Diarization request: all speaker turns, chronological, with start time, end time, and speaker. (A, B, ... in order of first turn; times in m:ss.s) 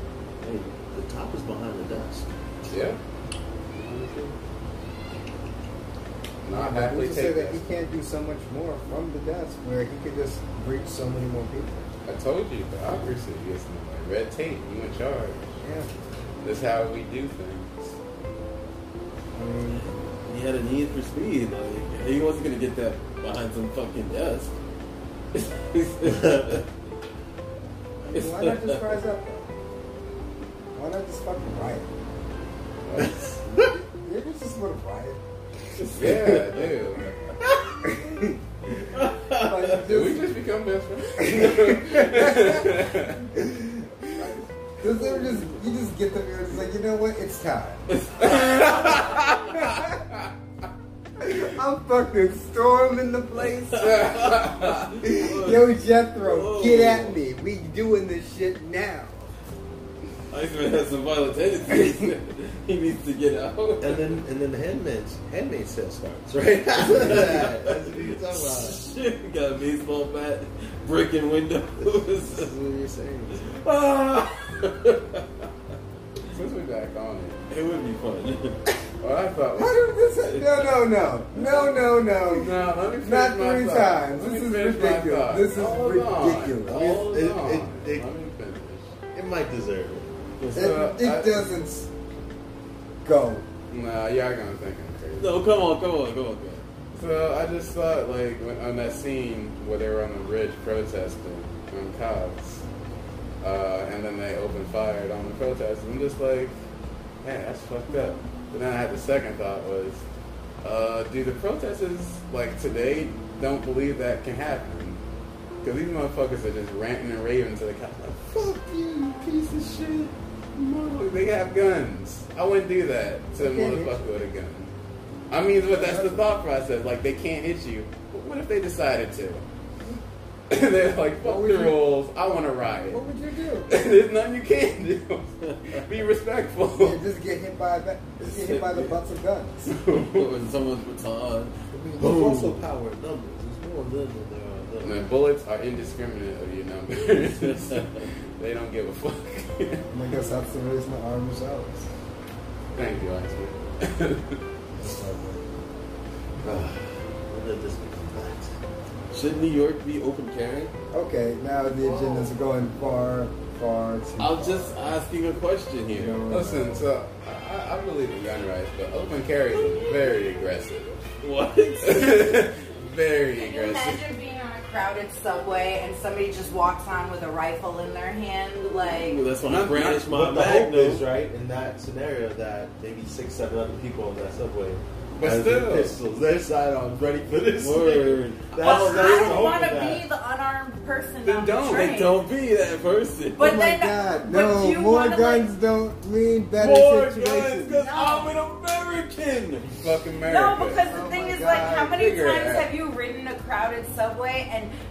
0:00.4-0:00.7 A
0:00.9-0:02.8 B
0:02.7-0:03.0 C
0:03.7-0:04.4 C
0:06.4-0:07.7 C
0:06.5-0:11.9 D
0:12.0-0:15.5 C
0:15.6-0:15.9 D
0:16.4-0:18.0 C
0:19.3-0:20.0 D
0:19.7-0:24.5 A
0:25.3-0:26.6 A
0:26.1-0:26.6 B
0:28.0-0:29.5 D
0:28.1-0:28.9 A
0:30.7-0:31.8 D
0:32.8-0:33.4 C
0:33.6-0:35.2 D
0:35.8-0:36.7 A
0:35.9-0:37.3 C
0:37.8-0:40.3 D
0:38.7-0:39.8 A
0:39.8-0:43.5 C
0:41.2-0:43.7 D
0:44.1-0:44.3 C
0:44.2-0:47.9 D
0:45.0-0:45.5 A
0:47.9-0:49.3 A
0:48.2-0:49.9 C
0:49.5-0:50.0 D
0:51.2-0:54.4 D
0:53.7-0:57.2 A
0:53.8-0:54.9 C
0:55.0-0:59.3 D
1:00.3-1:04.1 A
1:03.8-1:08.8 B
1:06.9-1:12.5 A
1:11.8-1:13.6 B
1:13.6-1:15.5 A
1:16.3-1:17.4 C
1:17.5-1:18.6 A
1:19.0-1:19.9 C
1:19.6-1:26.8 D
1:20.2-1:21.6 A
1:22.2-1:28.9 C
1:26.7-1:28.1 B
1:29.1-1:30.1 B
1:30.4-1:30.9 A
1:30.5-1:31.5 C
1:30.5-1:31.9 D
1:33.0-1:33.4 D
1:33.7-1:35.4 C
1:35.2-1:36.6 A
1:36.9-1:42.6 C
1:43.4-1:46.5 C
1:47.2-1:50.0 C
1:50.6-1:55.0 C
1:55.6-1:58.5 C
1:58.3-2:00.1 B
2:00.6-2:04.7 C
2:03.4-2:04.2 D
2:05.3-2:09.4 C
2:05.7-2:06.2 D
2:10.5-2:13.0 C
2:11.2-2:11.8 D
2:12.9-2:13.7 D
2:13.7-2:17.0 C
2:15.4-2:15.8 A
2:16.8-2:19.8 D
2:18.2-2:19.0 A
2:19.7-2:20.3 C
2:19.8-2:22.6 A
2:21.7-2:25.1 B
2:24.8-2:29.8 C
2:27.3-2:28.1 A
2:29.9-2:31.9 D
2:32.7-2:34.4 C
2:34.8-2:35.4 D
2:36.4-2:38.6 B
2:39.1-2:40.7 A
2:40.9-2:44.9 D
2:41.8-2:42.3 B
2:44.2-2:46.2 A
2:45.9-2:46.9 D
2:46.3-2:51.0 C
2:51.2-2:52.4 A
2:51.8-2:54.0 C
2:53.4-2:59.2 E
2:58.7-3:01.0 A
2:59.4-3:00.0 C
3:00.0-3:10.0 B
3:05.2-3:06.0 C
3:07.6-3:09.5 A
3:08.6-3:12.2 E
3:11.2-3:11.9 C
3:11.7-3:13.6 A
3:13.3-3:15.5 E
3:13.4-3:17.8 D
3:16.6-3:19.7 A
3:17.7-3:18.3 E
3:19.7-3:20.8 C
3:20.2-3:24.7 E
3:20.9-3:21.9 D
3:21.8-3:22.7 C